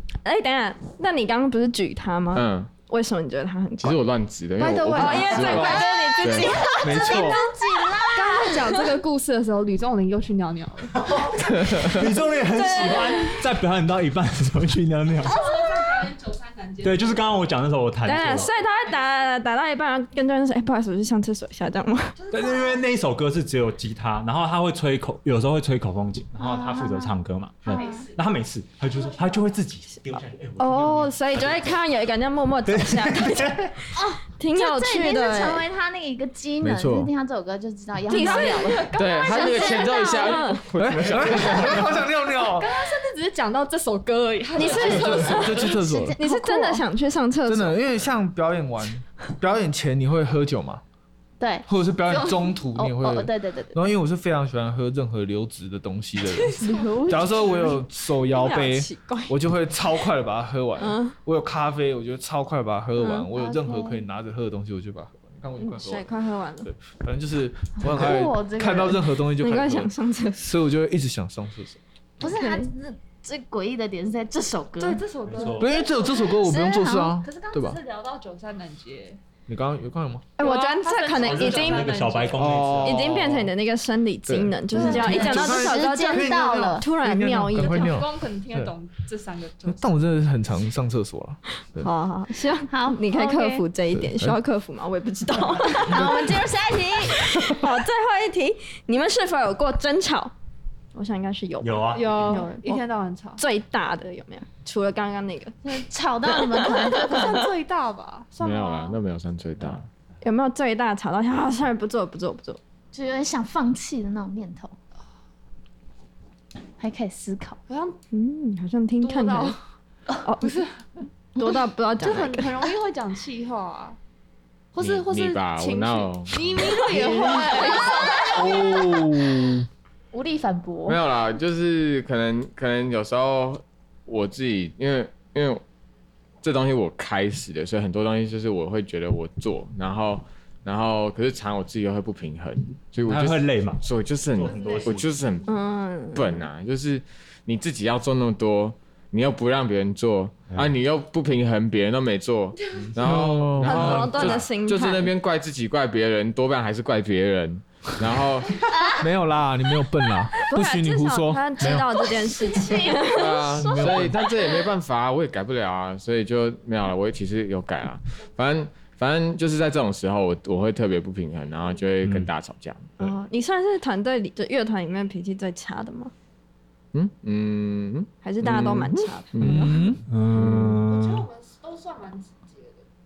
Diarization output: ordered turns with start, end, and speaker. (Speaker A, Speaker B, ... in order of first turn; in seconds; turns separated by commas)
Speaker A: 0.2-4.0, Speaker B: 2.3-2.7, Speaker B: 3.8-7.4, Speaker C: 4.6-6.4, Speaker A: 4.9-8.0, Speaker D: 5.8-8.8, Speaker E: 6.8-7.3, Speaker C: 8.1-11.2, Speaker F: 11.0-15.4, Speaker B: 11.7-12.0, Speaker C: 12.5-13.2, Speaker A: 12.5-13.3, Speaker C: 15.2-17.4, Speaker F: 16.8-18.5, Speaker A: 18.0-22.1, Speaker C: 18.2-19.1, Speaker C: 22.1-22.8, Speaker F: 22.3-31.7, Speaker D: 26.4-27.1, Speaker D: 27.6-28.1, Speaker C: 27.6-28.3, Speaker C: 28.8-29.5, Speaker A: 30.6-33.9, Speaker F: 32.6-33.8, Speaker D: 33.9-38.8, Speaker A: 34.4-35.6, Speaker E: 36.6-37.1, Speaker A: 38.1-40.6, Speaker C: 38.1-40.6, Speaker B: 39.0-41.9, Speaker E: 40.7-42.7, Speaker F: 40.9-41.9, Speaker C: 42.5-45.9, Speaker E: 44.6-46.2, Speaker A: 44.6-47.8, Speaker D: 44.6-44.9, Speaker D: 45.8-46.8, Speaker E: 47.4-50.8, Speaker D: 51.4-53.8, Speaker E: 51.7-66.1, Speaker D: 56.6-57.5, Speaker A: 56.6-59.3, Speaker A: 60.8-61.1, Speaker A: 63.0-63.3, Speaker D: 63.3-64.0, Speaker A: 65.6-66.7, Speaker E: 66.6-71.8, Speaker D: 67.8-69.0, Speaker A: 69.4-70.5, Speaker D: 72.2-75.0, Speaker A: 72.2-72.7, Speaker C: 74.8-76.3, Speaker F: 75.2-75.8, Speaker E: 75.5-77.8, Speaker D: 76.1-77.2, Speaker C: 77.2-79.2, Speaker E: 79.5-80.3, Speaker A: 80.4-82.0, Speaker C: 80.4-82.6, Speaker F: 81.1-83.2, Speaker E: 82.3-83.5, Speaker A: 82.8-88.0, Speaker E: 84.2-88.7, Speaker D: 84.7-86.8, Speaker C: 87.5-90.0, Speaker E: 89.7-91.9, Speaker A: 91.8-96.2, Speaker D: 92.7-93.6, Speaker E: 93.9-94.4, Speaker D: 95.7-97.4, Speaker A: 97.3-100.3, Speaker A: 100.9-102.8, Speaker F: 101.6-102.4, Speaker C: 101.9-103.4, Speaker D: 102.3-102.6, Speaker A: 103.4-105.6, Speaker D: 105.6-107.4, Speaker A: 106.6-107.2, Speaker C: 106.8-109.0, Speaker B: 108.4-109.8, Speaker A: 110.2-112.6, Speaker D: 112.9-114.8, Speaker D: 116.8-117.6, Speaker C: 117.7-118.0, Speaker A: 118.1-119.6, Speaker C: 119.0-119.6, Speaker A: 120.2-120.6, Speaker C: 120.4-120.8, Speaker D: 121.4-121.6, Speaker A: 121.4-122.7, Speaker C: 122.0-124.0, Speaker C: 124.7-129.0, Speaker B: 124.8-126.9, Speaker D: 127.1-129.0, Speaker E: 128.4-129.6, Speaker D: 130.1-131.0, Speaker B: 130.9-135.6, Speaker B: 136.4-145.5, Speaker F: 143.1-145.1, Speaker C: 144.4-145.5, Speaker A: 145.5-146.4, Speaker B: 146.1-158.6, Speaker F: 152.8-154.5, Speaker E: 152.9-153.8, Speaker A: 153.6-155.1, Speaker D: 158.7-159.1, Speaker E: 159.0-162.5, Speaker A: 160.4-163.6, Speaker D: 162.4-164.6, Speaker B: 163.1-172.9, Speaker E: 163.6-164.2, Speaker A: 173.0-176.1, Speaker B: 176.9-179.8, Speaker A: 178.2-179.8, Speaker E: 179.4-180.0, Speaker F: 180.1-181.3, Speaker B: 180.3-180.8, Speaker C: 180.5-182.8